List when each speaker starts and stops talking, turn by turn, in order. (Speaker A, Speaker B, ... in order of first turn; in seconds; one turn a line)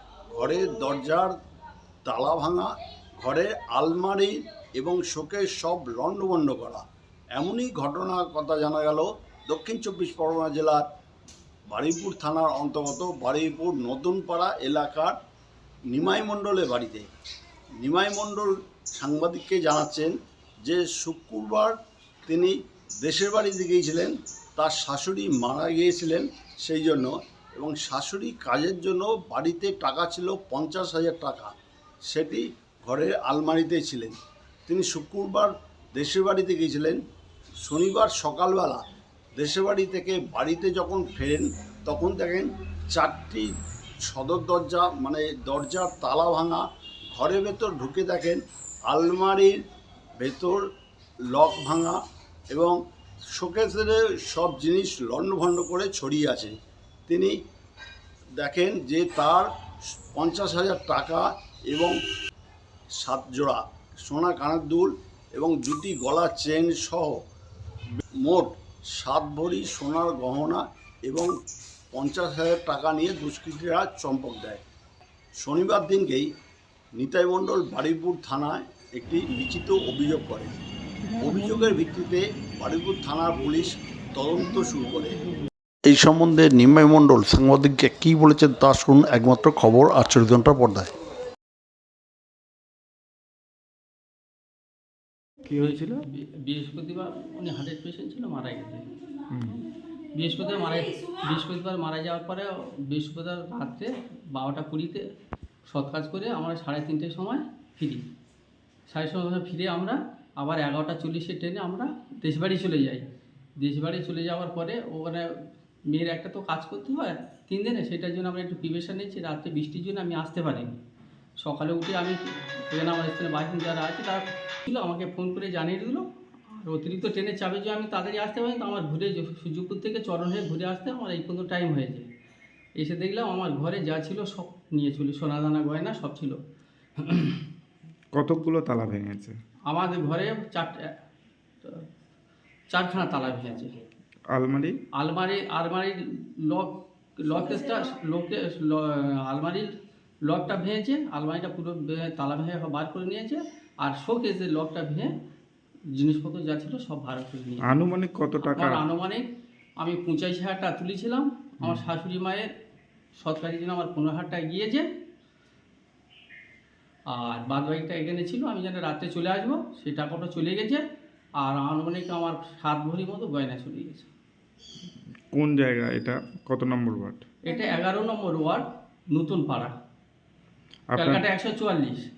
Speaker A: 0.3-1.3
Speaker A: 2.0-6.8
Speaker A: 7.3-10.9
Speaker A: 11.7-15.2
Speaker A: 15.9-17.1
Speaker A: 17.8-31.5
Speaker A: 32.1-34.2
Speaker A: 34.7-37.0
Speaker A: 37.6-38.8
Speaker A: 39.4-43.5
Speaker A: 44.1-49.6
Speaker A: 50.2-50.6
Speaker A: 51.3-52.0
Speaker A: 52.5-52.8
Speaker A: 53.3-56.5
Speaker A: 57.1-57.4
Speaker A: 58.4-59.5
Speaker A: 60.0-62.0
Speaker A: 63.0-67.2
Speaker A: 68.2-71.3
Speaker A: 71.9-74.6
Speaker A: 75.4-76.3
Speaker A: 77.0-80.5
Speaker A: 81.2-85.2
Speaker A: 85.9-90.9
Speaker B: 95.5-96.0
Speaker C: 96.2-98.9
Speaker B: 99.3-99.6
Speaker C: 100.2-105.0
Speaker C: 105.7-108.0
Speaker C: 108.9-113.0
Speaker C: 113.6-115.3
Speaker C: 115.9-120.8
Speaker C: 121.4-132.1
Speaker C: 132.8-136.4
Speaker C: 137.0-137.4
Speaker B: 138.2-139.3
Speaker C: 139.7-140.9
Speaker C: 142.7-143.8
Speaker B: 144.3-144.8
Speaker C: 145.0-149.7
Speaker C: 150.3-155.1
Speaker C: 156.0-157.7
Speaker B: 157.6-158.8
Speaker C: 158.4-159.3
Speaker C: 159.8-162.5
Speaker C: 163.2-164.9
Speaker C: 167.1-170.8
Speaker C: 171.4-174.1
Speaker B: 175.3-177.2
Speaker C: 177.4-179.7
Speaker B: 180.9-181.2
Speaker C: 181.0-182.1